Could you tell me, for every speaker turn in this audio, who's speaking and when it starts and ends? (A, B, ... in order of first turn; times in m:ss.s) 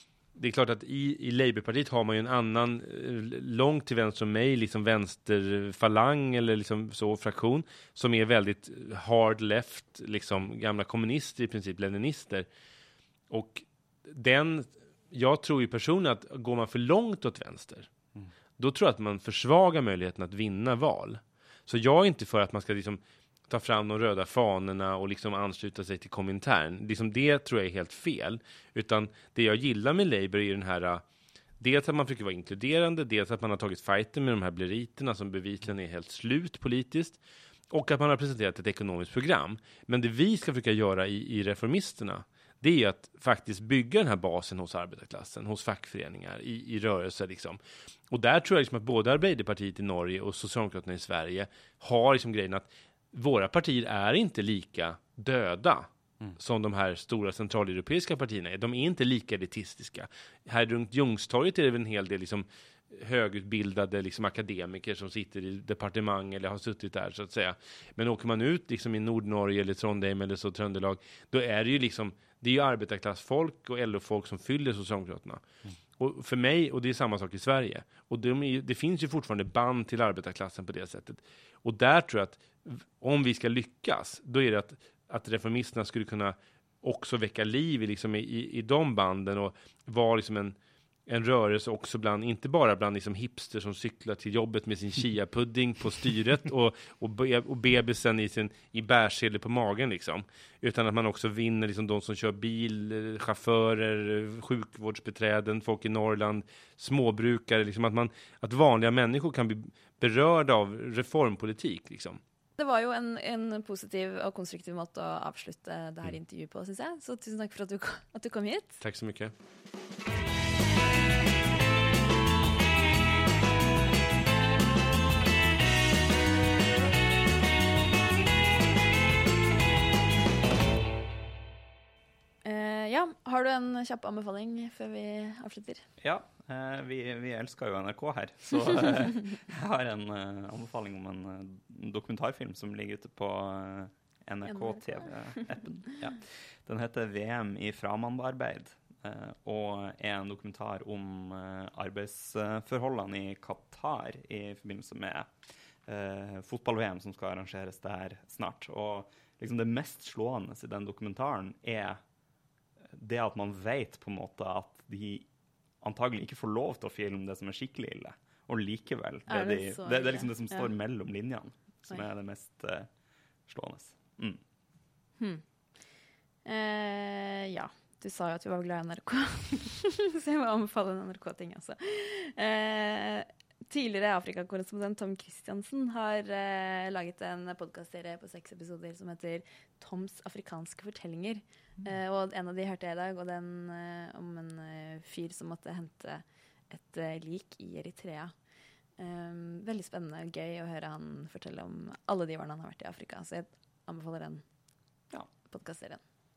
0:00.4-0:12.5 A
0:13.3-0:17.9 A
0:18.6-0:31.0 A
0:31.6-0:37.2 A
0:37.7-0:47.6 A
0:48.1-1:15.4 A
1:16.0-1:30.6 A
1:31.1-1:52.2 A
1:52.6-1:58.8 B
1:58.8-1:59.3 A
2:12.4-2:15.8 B
2:16.0-2:35.3 C
2:24.5-2:24.8 B
2:35.9-2:42.0 C
2:42.9-2:45.2 C
2:45.8-2:52.9 C
2:49.3-2:50.7 B
2:53.5-2:54.4 C
2:56.4-3:18.3 B
3:19.0-3:24.4 B
3:25.5-3:26.0 B